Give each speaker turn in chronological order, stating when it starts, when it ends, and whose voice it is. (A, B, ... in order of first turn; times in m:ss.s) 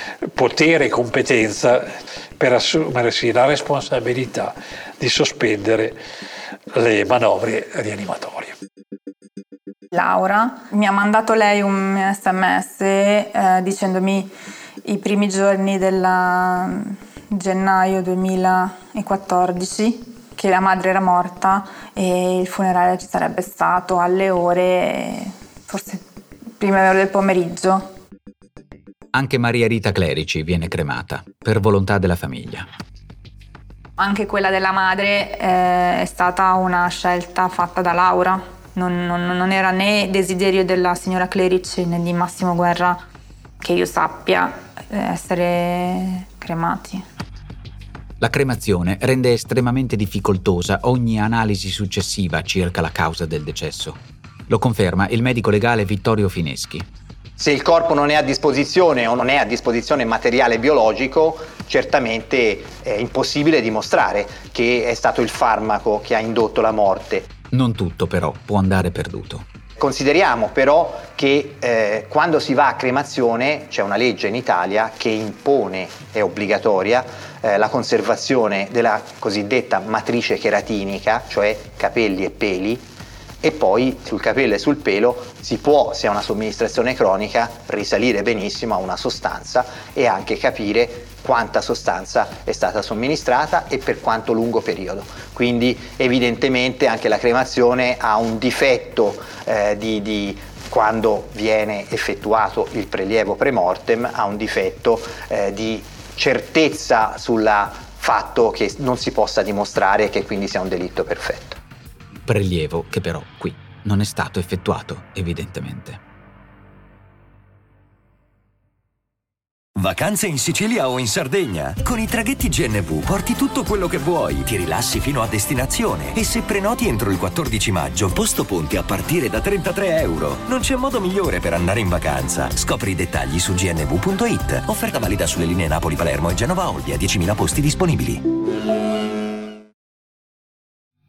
0:00.3-0:06.0 A
0:06.7-0:08.6 A
0:09.9-0:14.3 B
0:14.8-0:26.0 B
0:26.6-0:27.9 B
0:29.1-0:32.7 C
0:34.0-0:43.0 B
0:43.6-0:47.0 B
0:48.2-0:54.0 C
0:54.5-0:56.9 C
0:57.4-1:07.3 D
1:07.5-1:09.5 C
1:09.8-1:22.9 D
1:23.4-1:51.6 D
1:52.3-1:56.0 C
1:59.8-2:18.2 E